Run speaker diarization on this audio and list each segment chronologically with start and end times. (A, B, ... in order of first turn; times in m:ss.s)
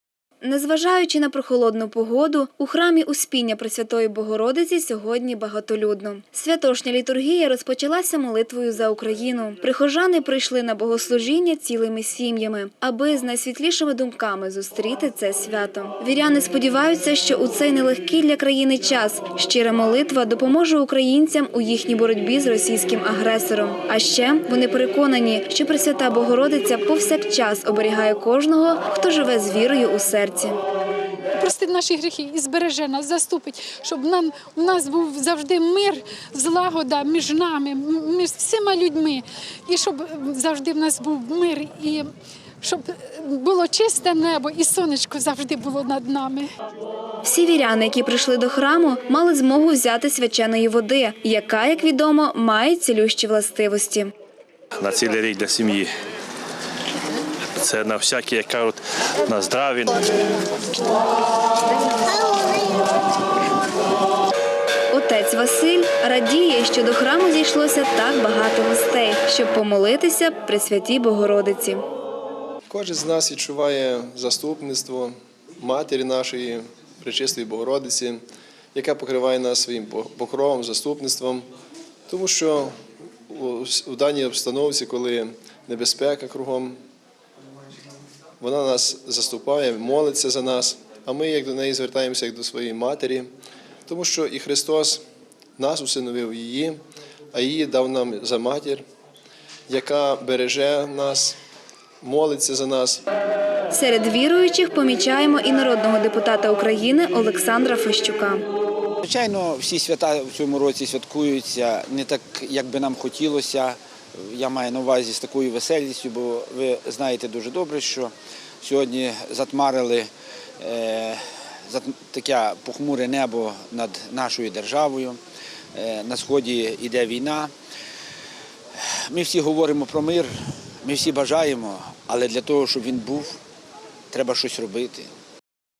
0:00.4-0:30.6 A
0:31.4-0:42.1 B
0:42.6-0:46.5 B
0:47.2-0:54.1 A
0:54.8-0:55.9 C
0:57.6-1:00.1 C
1:04.9-1:11.8 A
1:12.7-1:18.2 D
1:18.7-1:21.5 D
1:22.1-1:22.7 D
1:23.3-1:26.8 D
1:28.4-1:33.3 D
1:33.9-1:35.0 D
1:35.6-1:36.8 D
1:37.3-1:38.8 D
1:39.7-1:41.4 D
1:42.0-1:43.0 D
1:43.7-1:48.4 A
1:49.0-2:05.2 E
2:05.7-2:07.5 E
2:08.8-2:13.4 E
2:14.1-2:15.1 E